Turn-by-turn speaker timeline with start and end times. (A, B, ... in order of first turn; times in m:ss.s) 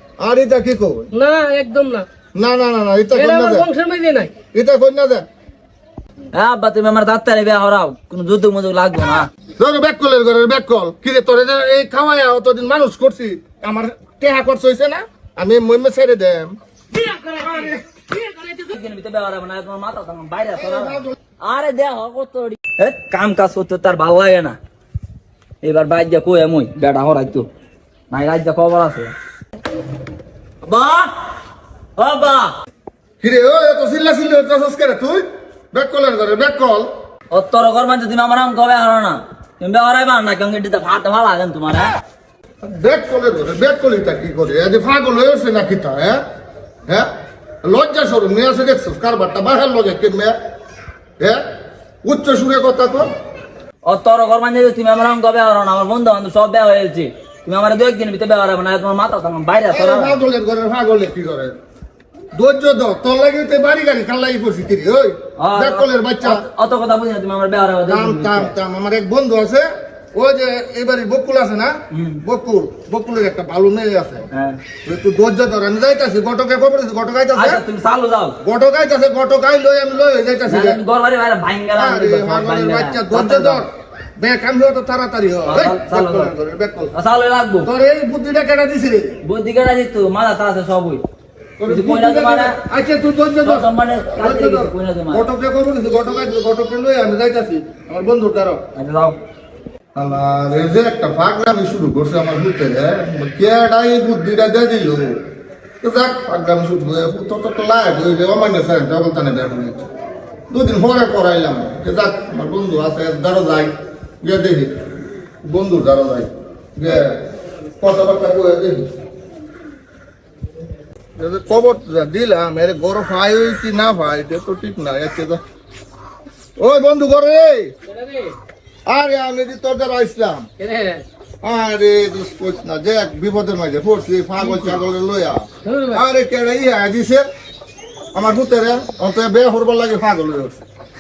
0:00.2-0:01.1 A
0:01.2-0:02.1 B
0:02.4-0:03.6 A
0:03.1-0:04.3 B
0:04.5-0:05.3 A
0:06.3-0:09.2 C
0:09.6-0:16.6 A
0:16.9-0:18.7 B
0:17.4-0:17.8 A
0:18.6-0:24.6 C
0:20.6-0:21.2 A
0:25.6-0:27.5 C
0:28.1-0:29.1 C
0:30.6-0:31.1 C
0:32.0-0:32.5 C
0:33.2-0:36.9 A
0:37.3-0:41.9 C
0:42.6-0:46.2 A
0:47.6-0:50.3 A
0:52.0-0:53.1 A
0:53.8-1:00.2 C
0:59.7-1:01.6 A
1:02.4-1:06.4 A
1:05.4-1:08.5 C
1:07.9-1:11.7 A
1:11.9-1:12.2 C
1:12.2-1:14.2 A
1:14.3-1:14.6 C
1:14.8-1:17.6 A
1:17.3-1:18.4 C
1:18.4-1:20.8 A
1:20.5-1:23.6 C
1:21.8-1:26.9 A
1:25.4-1:26.3 C
1:26.9-1:27.7 C
1:27.6-1:29.2 A
1:29.2-1:31.0 C
1:31.6-1:38.6 A
1:31.7-1:32.6 C
1:33.4-1:35.2 C
1:38.8-1:39.2 C
1:40.0-1:45.1 A
1:45.8-1:49.9 A
1:50.5-1:54.7 A
1:55.4-1:57.2 A
1:57.8-1:58.9 A
2:01.2-2:05.4 A
2:06.6-2:07.7 A
2:07.9-2:08.4 B
2:08.9-2:10.5 A
2:10.6-2:11.0 B
2:11.4-2:17.2 A
2:14.4-2:14.8 B
2:15.6-2:16.0 B
2:18.1-2:20.6 A